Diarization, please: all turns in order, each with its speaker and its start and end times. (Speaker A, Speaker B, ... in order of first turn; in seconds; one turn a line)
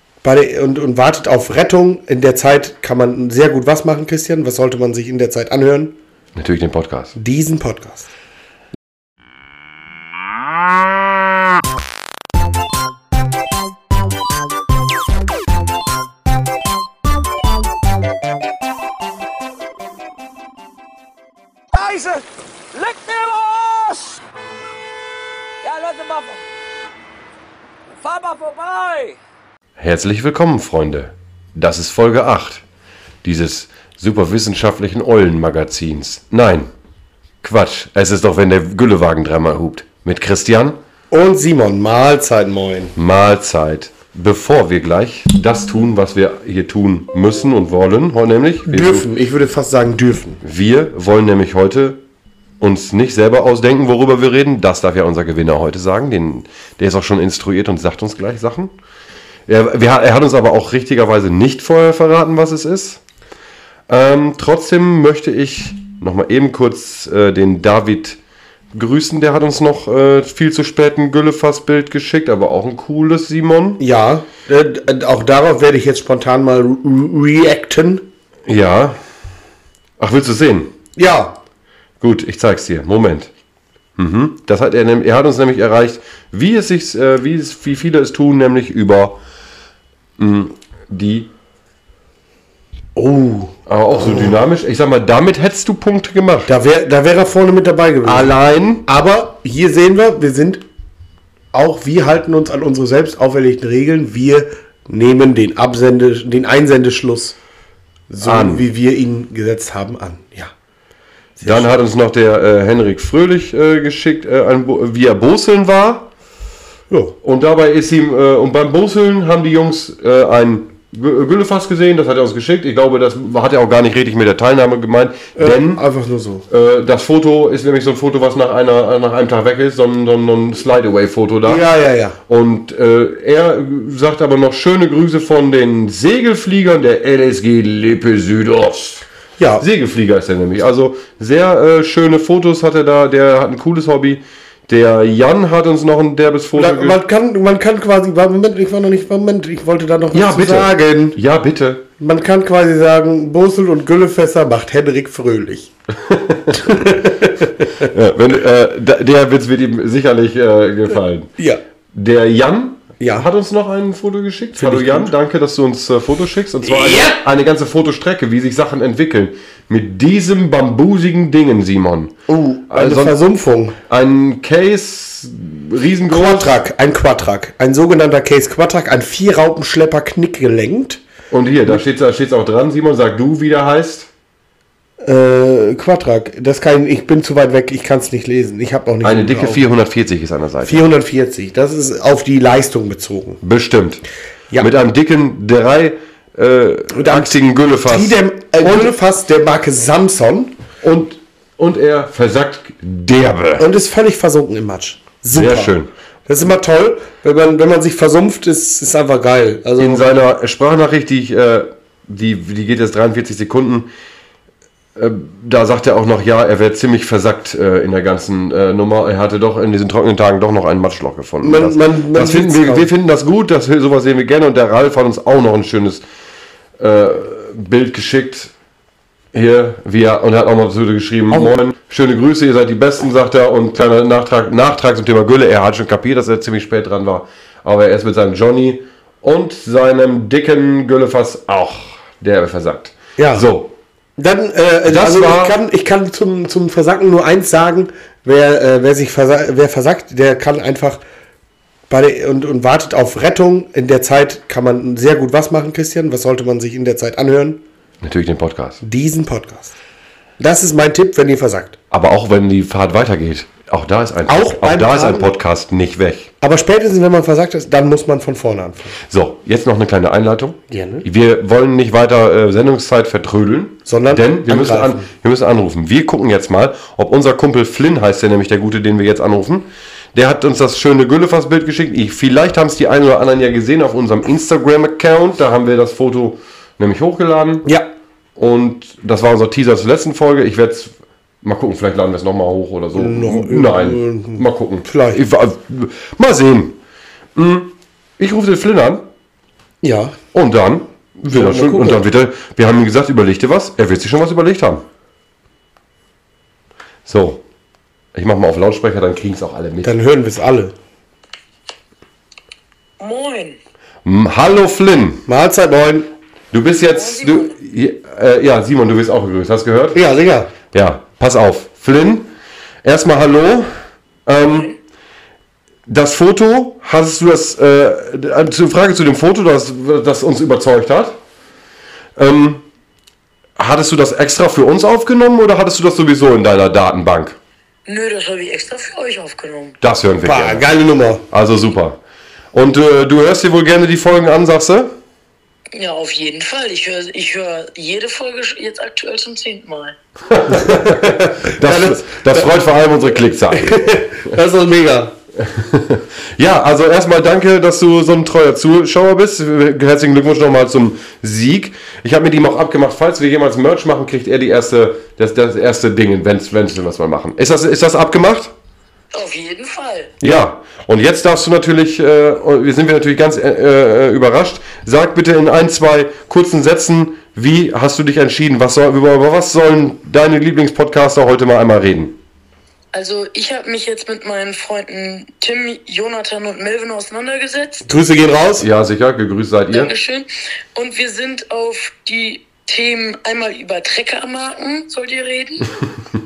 Speaker A: 0.2-5.9
Speaker B: 6.3-7.2
Speaker A: 7.2-8.1
Speaker C: 21.7-24.2
Speaker C: 25.6-26.4
Speaker C: 28.0-29.2
Speaker B: 29.8-32.6
Speaker B: 33.2-36.7
Speaker B: 37.4-40.8
Speaker A: 41.1-42.9
Speaker B: 43.0-49.1
Speaker A: 48.6-50.4
Speaker B: 50.4-52.0
Speaker B: 52.6-58.7
Speaker B: 59.5-63.0
Speaker B: 63.9-68.2
Speaker B: 68.7-73.8
Speaker A: 73.8-78.0
Speaker B: 78.5-79.0
Speaker B: 80.0-80.7
Speaker A: 81.0-81.4
Speaker B: 82.0-83.3
Speaker B: 84.0-89.2
Speaker B: 90.2-91.3
Speaker A: 93.0-94.3
Speaker B: 93.7-96.5
Speaker A: 96.5-100.6
Speaker B: 98.0-98.8
Speaker A: 101.5-107.3
Speaker A: 108.1-110.5
Speaker B: 108.2-108.6
Speaker A: 111.4-111.7
Speaker B: 111.4-116.1
Speaker A: 116.9-117.2
Speaker B: 117.2-125.8
Speaker A: 125.3-126.4
Speaker B: 126.5-131.6
Speaker A: 131.4-132.2
Speaker B: 132.3-139.0
Speaker A: 139.4-139.6
Speaker B: 139.6-147.0
Speaker A: 146.5-151.2
Speaker B: 150.1-151.8
Speaker A: 152.0-155.7
Speaker B: 156.0-157.1
Speaker A: 156.5-157.9
Speaker B: 157.8-161.3
Speaker B: 161.9-172.2
Speaker A: 163.0-163.3
Speaker A: 164.6-165.1
Speaker A: 166.6-167.2
Speaker A: 172.3-173.8
Speaker B: 172.7-173.2
Speaker B: 173.9-176.6
Speaker A: 176.1-181.0
Speaker B: 181.3-184.1
Speaker A: 185.0-189.6
Speaker B: 189.0-190.8
Speaker A: 190.6-193.4
Speaker B: 193.4-194.0
Speaker B: 194.6-198.9
Speaker A: 196.9-200.5
Speaker B: 200.8-203.7
Speaker A: 203.6-210.2
Speaker B: 205.3-205.9
Speaker B: 209.8-213.9
Speaker B: 214.9-226.0
Speaker A: 221.4-222.9
Speaker B: 226.8-228.5
Speaker B: 229.3-243.7
Speaker A: 243.2-243.4
Speaker A: 244.2-251.0
Speaker B: 244.8-245.6
Speaker A: 251.9-257.6
Speaker B: 258.0-258.8
Speaker A: 258.8-259.7
Speaker A: 260.4-261.8
Speaker B: 261.9-266.3
Speaker A: 264.2-265.3
Speaker A: 266.4-268.9
Speaker B: 269.1-287.6
Speaker A: 270.7-271.1
Speaker A: 273.9-275.1
Speaker B: 288.4-290.9
Speaker B: 291.4-296.8
Speaker A: 292.9-295.2
Speaker B: 297.4-299.1
Speaker A: 299.8-300.1
Speaker B: 300.3-304.8
Speaker A: 301.2-302.0
Speaker B: 307.1-307.4
Speaker B: 308.1-309.9
Speaker A: 309.8-310.7
Speaker D: 313.0-313.6
Speaker B: 314.0-315.2
Speaker A: 315.3-316.1
Speaker B: 316.5-320.0
Speaker D: 316.9-317.5
Speaker A: 319.9-320.5
Speaker B: 320.7-322.3
Speaker B: 322.8-323.7
Speaker B: 324.2-324.7
Speaker B: 325.9-331.2
Speaker B: 332.1-332.6
Speaker B: 333.6-337.4
Speaker D: 337.9-339.8
Speaker B: 339.8-340.6
Speaker A: 340.2-341.2
Speaker B: 341.3-342.0
Speaker B: 342.5-344.9
Speaker D: 345.7-349.9
Speaker B: 350.3-354.3
Speaker A: 350.5-352.6
Speaker A: 353.5-355.1
Speaker B: 355.4-368.5
Speaker D: 369.1-370.1
Speaker B: 370.2-382.1
Speaker D: 382.9-387.9
Speaker A: 387.9-388.6
Speaker B: 388.6-389.9
Speaker D: 389.7-395.7